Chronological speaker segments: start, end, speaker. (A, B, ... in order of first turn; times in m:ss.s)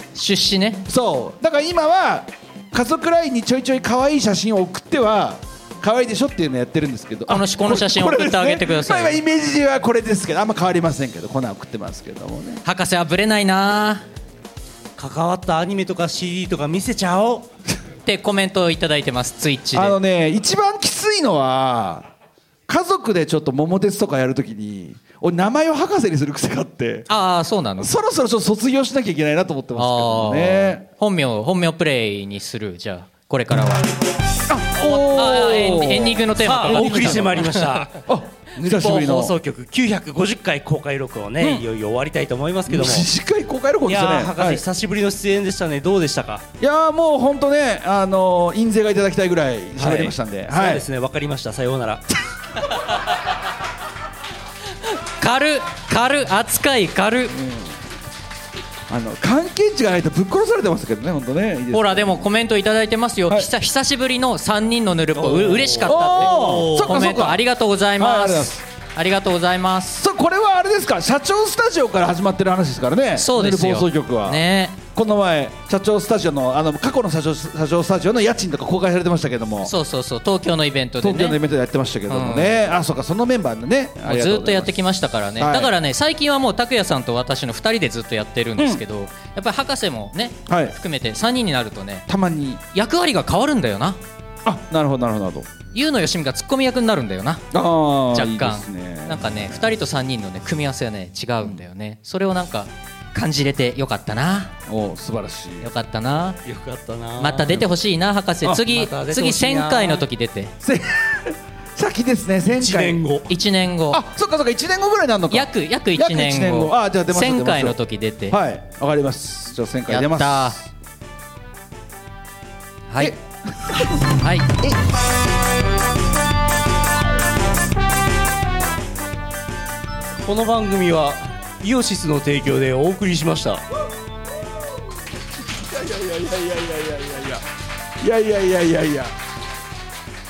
0:00.1-0:00.8 A
0:00.9-0:12.6 B
0:07.3-0:09.2 A
0:12.6-0:14.0 A
0:15.0-0:17.5 C
0:18.0-0:20.0 A
0:19.7-0:22.1 B
0:22.7-0:27.1 B
0:27.1-0:27.9 A
0:27.8-0:30.8 B
0:29.7-0:33.8 A
0:34.5-0:36.3 B
0:34.8-0:37.8 A
0:36.3-0:43.1 C
0:38.0-0:39.3 B
0:41.4-0:41.6 B
0:42.7-0:44.6 B
0:43.8-0:46.4 C
0:46.6-0:50.8 B
0:49.8-0:52.0 C
0:55.2-0:57.3 A
0:57.3-0:57.8 B
0:58.9-1:02.2 B
1:01.7-1:10.0 A
1:05.2-1:07.2 C
1:05.8-1:07.4 B
1:08.0-1:08.6 B
1:10.0-1:19.7 B
1:13.2-1:14.8 A
1:19.6-1:21.4 A
1:21.0-1:24.8 B
1:22.1-1:22.6 A
1:24.0-1:32.0 A
1:25.4-1:25.7 B
1:28.6-1:28.8 B
1:30.5-1:30.8 B
1:32.1-1:32.6 B
1:32.7-1:34.0 A
1:34.4-1:35.5 B
1:35.7-1:37.4 A
1:37.5-1:39.7 B
1:38.1-1:44.5 A
1:41.4-1:41.6 B
1:44.7-1:45.7 B
1:45.6-1:46.4 A
1:46.4-1:47.7 C
1:47.2-1:50.5 A
1:48.4-1:48.7 B
1:48.6-1:50.1 C
1:50.6-1:53.0 B
1:52.4-1:53.3 C
1:53.3-1:54.0 A
1:53.9-2:00.7 B
1:55.3-1:58.4 A
1:59.9-2:00.6 A
2:02.9-2:03.2 A
2:03.0-2:04.0 B
2:04.1-2:04.5 A
2:10.2-2:13.6 C
2:15.6-2:17.4 B
2:18.0-2:19.1 B